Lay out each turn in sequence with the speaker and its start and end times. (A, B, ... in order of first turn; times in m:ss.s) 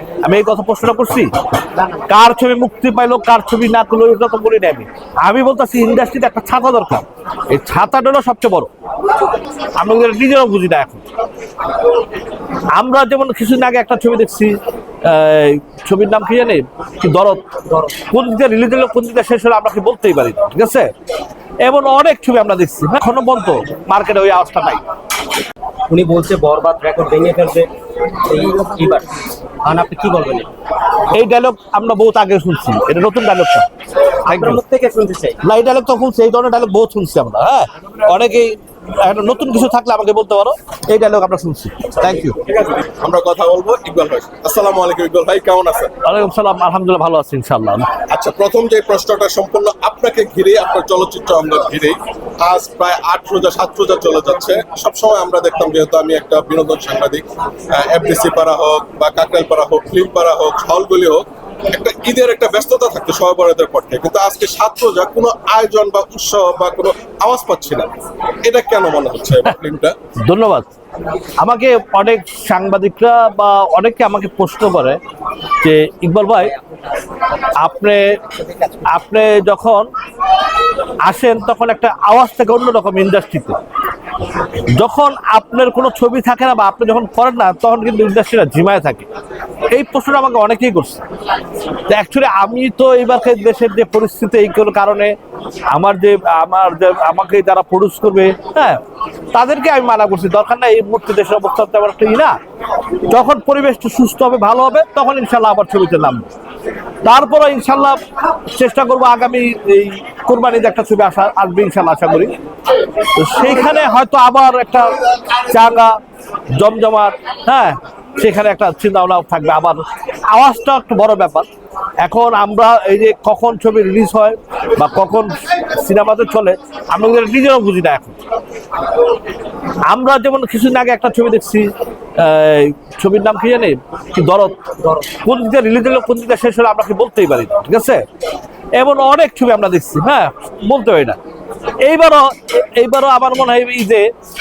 0:00.2-0:01.3 A
0:01.8-0:02.0 B
0:02.1-0:08.7 A
0:09.8-0:11.0 A
0:12.8-0:17.4 A
0:17.7-0:18.0 B
0:18.0-0:20.9 A
0:21.6-0:24.8 A
0:25.9-0:27.7 B
0:28.2-0:30.5 B
0:31.1-0:33.7 A
0:34.3-0:34.6 A
0:34.3-0:35.4 B
0:35.4-0:42.4 A
0:42.2-0:45.9 C
0:46.0-0:47.9 A
0:48.1-1:07.9 C
1:08.4-1:10.0 C
1:10.2-1:10.7 A
1:11.4-1:15.0 A
1:15.6-1:16.5 A
1:16.4-1:17.0 B
1:17.6-1:18.2 A
1:18.3-1:18.9 B
1:18.9-1:19.9 A
1:21.0-1:23.6 A
1:24.7-1:29.1 A
1:29.7-1:31.1 A
1:31.9-1:35.1 A
1:35.7-1:38.8 A
1:39.3-1:42.4 A
1:43.1-1:46.3 A
1:47.0-1:48.0 A
1:48.5-1:52.3 A
1:53.1-1:56.0 A
1:56.6-2:01.5 A
2:02.0-2:08.2 A
2:09.9-2:14.6 A
2:14.8-2:15.1 B
2:15.1-2:18.0 A
2:18.8-2:21.2 A
2:21.8-2:24.1 A